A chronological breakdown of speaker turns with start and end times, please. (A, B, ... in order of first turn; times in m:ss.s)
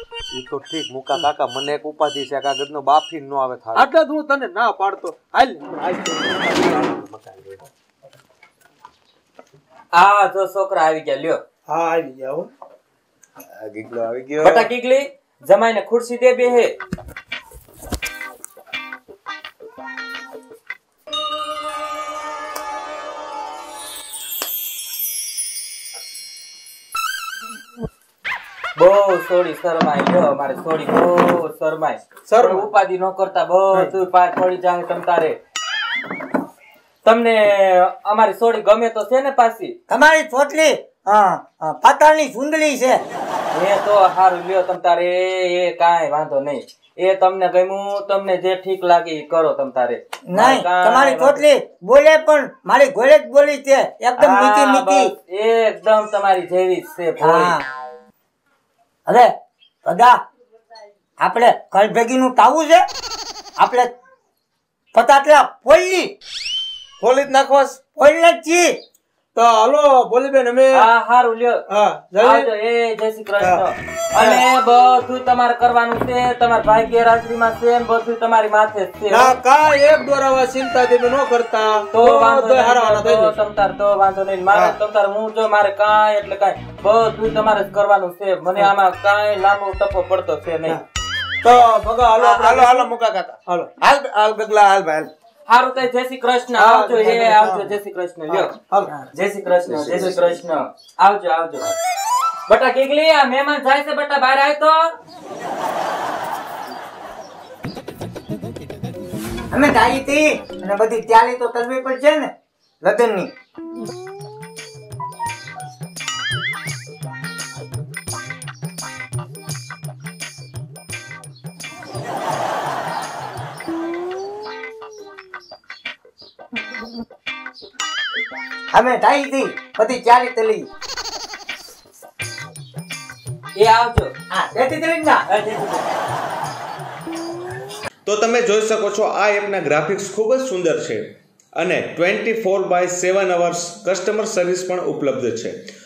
0:00.3-0:03.9 A
0:03.9-0:06.2 B
0:06.2-0:07.6 A
0:09.9-0:11.4 C
0:11.7-0:12.5 B
0:13.6-0:14.7 A
0:14.4-0:16.8 C
0:28.8-0:35.4 C
0:32.3-0:32.7 B
0:37.0-0:39.8 C
0:39.9-0:43.0 D
0:43.5-0:51.4 C
0:50.3-0:55.1 D
0:54.2-0:57.6 C
0:57.2-0:57.6 D
0:59.1-0:59.3 D
0:59.8-1:00.2 D
1:01.2-1:02.8 D
1:03.6-1:03.9 D
1:04.9-1:06.1 D
1:07.0-1:07.8 B
1:08.0-1:08.8 D
1:09.3-1:10.8 B
1:10.7-1:11.6 C
1:11.7-1:12.5 B
1:12.2-1:19.3 C
1:14.2-1:14.4 B
1:19.1-1:23.3 B
1:21.9-1:30.8 C
1:31.4-1:33.7 B
1:32.2-1:32.9 C
1:33.8-1:35.1 A
1:35.5-1:38.6 C
1:36.6-1:37.6 B
1:39.1-1:41.7 C
1:39.7-1:40.2 A
1:42.5-1:44.9 C
1:49.5-1:52.3 D
1:52.8-1:53.3 D
2:08.7-2:10.7 D
2:13.6-2:14.1 C
2:14.3-2:15.2 D
2:15.3-2:15.9 C
2:18.1-2:21.0 E
2:21.6-2:25.6 E